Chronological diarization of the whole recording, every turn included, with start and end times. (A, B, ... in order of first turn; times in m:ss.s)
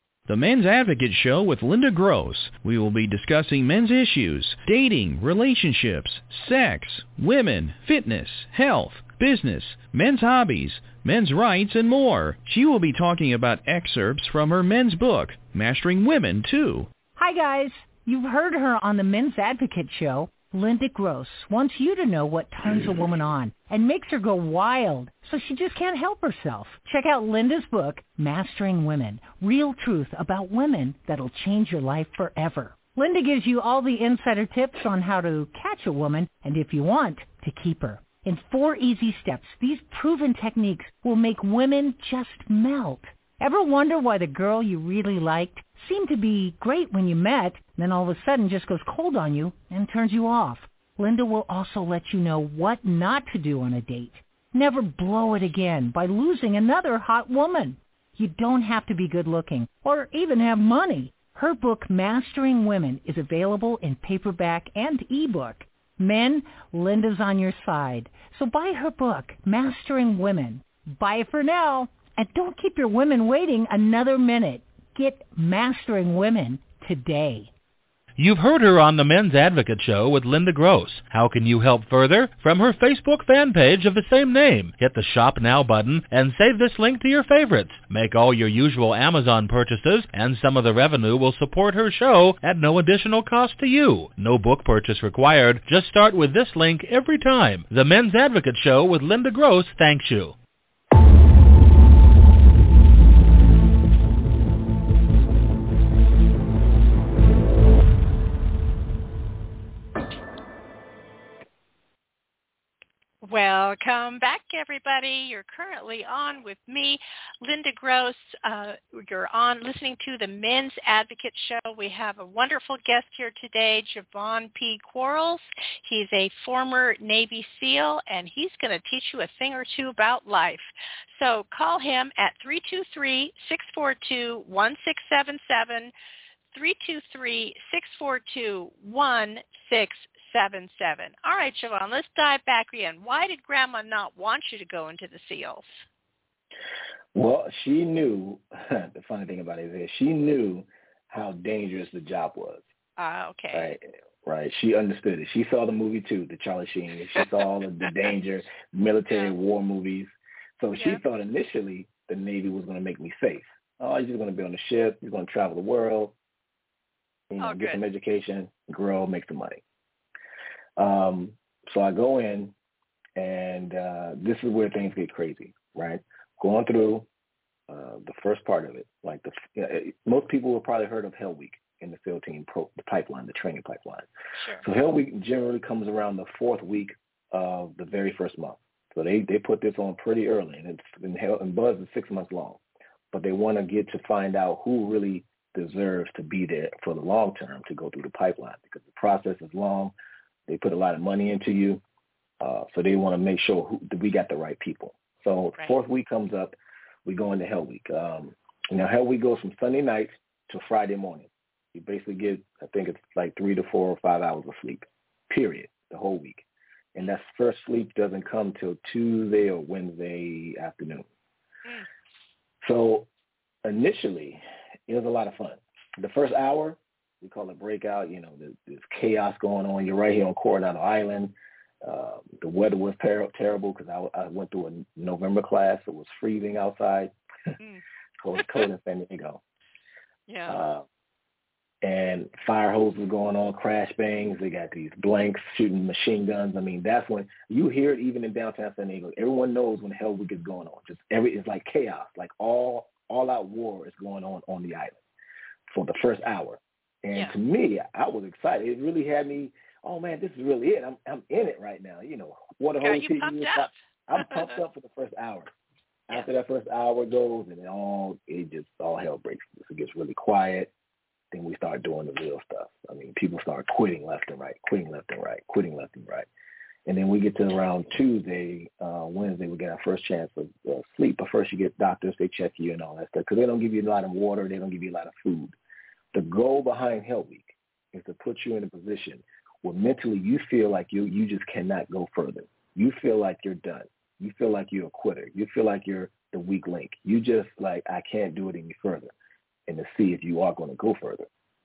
0:00.3-0:16.9 A
0:17.2-1:17.5 B
1:18.2-1:40.4 C
1:53.2-2:15.9 D
2:16.5-2:25.8 D
2:27.1-2:32.6 E
2:33.0-2:33.7 D
2:33.5-2:46.2 E
2:40.8-2:41.0 D
2:47.3-2:49.6 E
2:47.4-2:47.8 D
2:50.8-2:52.5 E
2:53.2-2:57.1 E
2:57.7-3:04.1 E
3:04.4-3:04.6 D
3:04.6-3:12.6 E
3:13.1-3:19.9 E
3:20.5-3:21.8 E
3:22.4-3:41.1 E
3:42.6-3:43.1 E
3:43.6-3:57.1 E
3:58.2-3:59.4 E
3:58.4-3:58.6 D
4:00.3-4:00.6 D
4:00.5-4:00.8 E
4:01.8-4:15.0 E
4:15.7-4:25.5 E
4:22.8-4:24.6 D
4:26.1-4:30.7 E
4:31.3-4:36.3 E
4:36.9-4:45.6 E
4:46.1-4:59.1 E
4:59.7-5:01.3 E